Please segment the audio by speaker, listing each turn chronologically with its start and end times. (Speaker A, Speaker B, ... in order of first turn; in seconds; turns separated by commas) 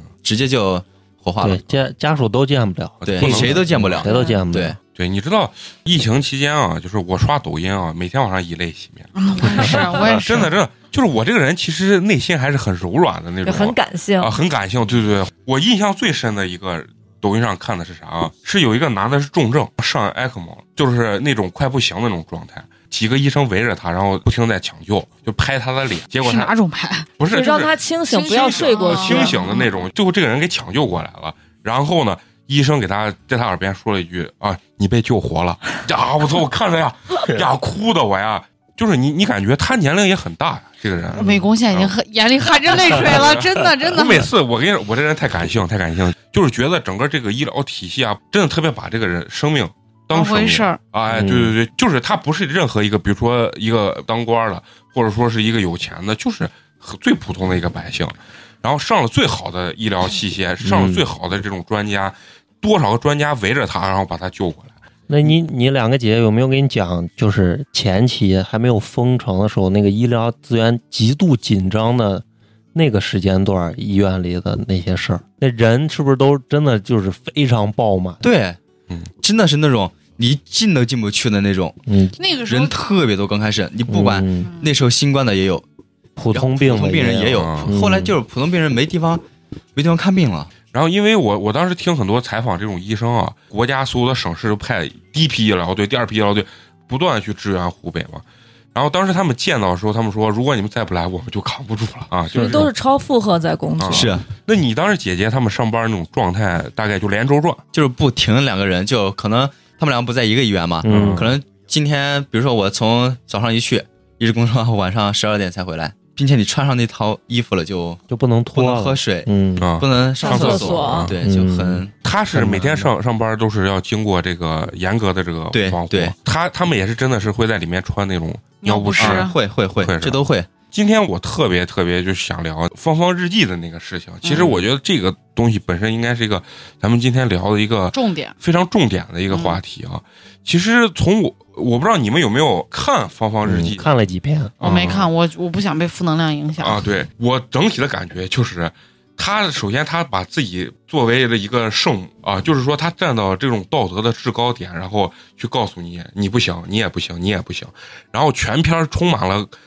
Speaker A: 0.2-1.6, Speaker B: 1.4-4.8, Speaker C: 3.0-4.0, Speaker A: 3.0-4.8, Speaker D: 4.1-4.4, Speaker C: 5.0-26.5, Speaker E: 9.2-10.6, Speaker D: 13.4-14.3, Speaker E: 26.2-27.1, Speaker C: 27.2-27.8, Speaker D: 27.3-29.6, Speaker E: 28.1-29.7, Speaker C: 28.3-42.0, Speaker E: 41.1-44.3, Speaker C: 42.8-64.8, Speaker E: 50.1-50.8, Speaker B: 51.1-51.6, Speaker B: 60.6-61.0, Speaker B: 65.1-78.2, Speaker A: 78.2-78.6, Speaker A: 79.2-81.8, Speaker B: 81.9-82.2, Speaker E: 82.2-82.8, Speaker A: 82.5-85.7, Speaker B: 83.9-84.5, Speaker E: 84.4-84.7, Speaker B: 86.2-88.2, Speaker A: 86.3-89.2, Speaker C: 87.3-87.7, Speaker A: 89.8-90.5, Speaker C: 90.7-98.2, Speaker C: 98.8-102.7, Speaker D: 102.3-104.2, Speaker C: 103.8-107.6, Speaker A: 103.9-104.3, Speaker A: 107.7-118.0, Speaker B: 110.8-111.3, Speaker C: 110.9-111.3, Speaker B: 118.1-119.8, Speaker A: 118.5-121.9, Speaker C: 119.6-121.1, Speaker D: 120.2-121.1, Speaker B: 121.2-122.9, Speaker C: 122.0-130.2, Speaker A: 125.5-126.1, Speaker E: 128.6-129.4, Speaker A: 129.0-130.5, Speaker C: 130.7-143.9, Speaker E: 134.2-134.6, Speaker E: 137.9-138.4, Speaker E: 139.3-139.6, Speaker B: 143.4-144.6, Speaker C: 144.6-145.1, Speaker E: 144.6-146.8, Speaker C: 146.6-159.5